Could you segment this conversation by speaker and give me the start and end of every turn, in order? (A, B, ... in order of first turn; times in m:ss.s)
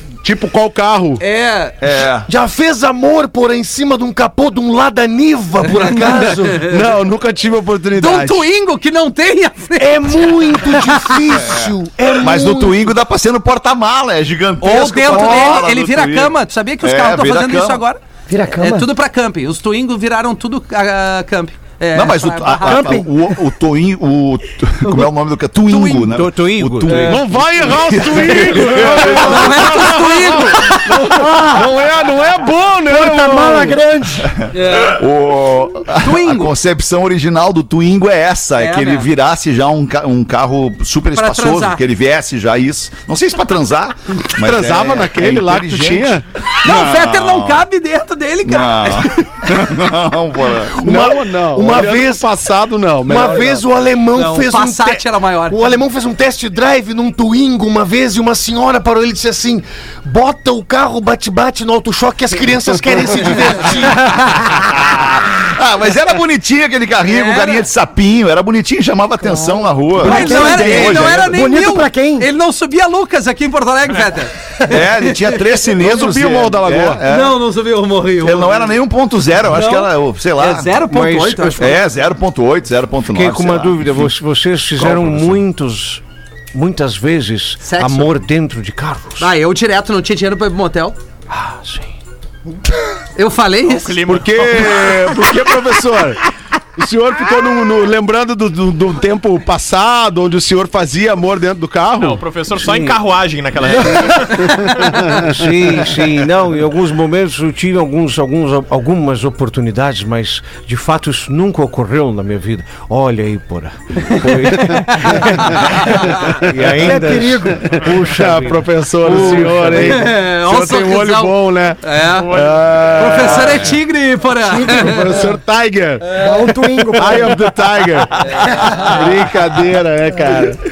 0:00.2-0:01.2 A
0:01.2-0:01.8 B
0:01.8-0:02.3 C
0:02.2-0:06.7 D
0:05.7-0:06.8 B
0:06.6-0:08.5 A
0:07.9-0:11.0 B
0:09.8-0:12.9 D
0:11.4-0:17.8 C
0:14.6-0:23.0 B
0:18.3-0:18.9 E
0:21.9-0:30.0 C
0:22.6-0:23.1 E
0:25.6-0:26.1 B
0:26.1-0:27.4 F
0:26.8-0:33.8 A
0:28.9-0:30.9 B
0:31.1-0:31.7 E
0:32.9-0:34.4 E
0:34.4-0:47.7 C
0:34.5-0:35.0 B
0:36.0-0:36.5 B
0:38.6-0:39.1 B
0:41.1-0:41.8 B
0:44.3-0:46.2 A
0:46.6-0:49.6 B
0:48.4-0:50.8 C
0:50.7-0:52.3 D
0:50.8-0:53.6 A
0:53.0-1:04.1 D
0:54.1-0:55.6 B
1:02.7-1:03.3 A
1:04.5-1:11.3 C
1:07.0-1:07.7 B
1:09.2-1:12.3 E
1:10.0-1:15.4 B
1:14.7-1:17.4 C
1:15.7-1:17.0 A
1:17.0-1:18.8 B
1:18.2-1:20.7 C
1:19.4-1:21.8 B
1:20.8-1:21.7 F
1:21.6-1:24.1 C
1:23.1-1:26.0 F
1:24.8-1:25.4 C
1:26.5-1:29.3 F
1:27.6-1:28.1 B
1:29.2-1:31.0 B
1:31.3-1:31.9 F
1:33.2-1:34.0 B
1:33.6-1:35.1 G
1:34.0-1:36.2 A
1:36.8-1:42.2 A
1:42.0-1:44.7 G
1:42.6-1:43.0 F
1:43.6-2:00.1 F
1:45.1-1:45.4 A
1:54.2-1:56.2 B
1:56.8-1:57.8 E
1:57.6-2:03.8 A
1:59.2-2:02.4 B
2:02.1-2:03.2 G
2:03.0-2:05.0 B
2:04.4-2:05.4 E
2:04.7-2:06.2 A
2:06.1-2:07.4 E
2:06.9-2:10.6 A
2:08.3-2:09.0 B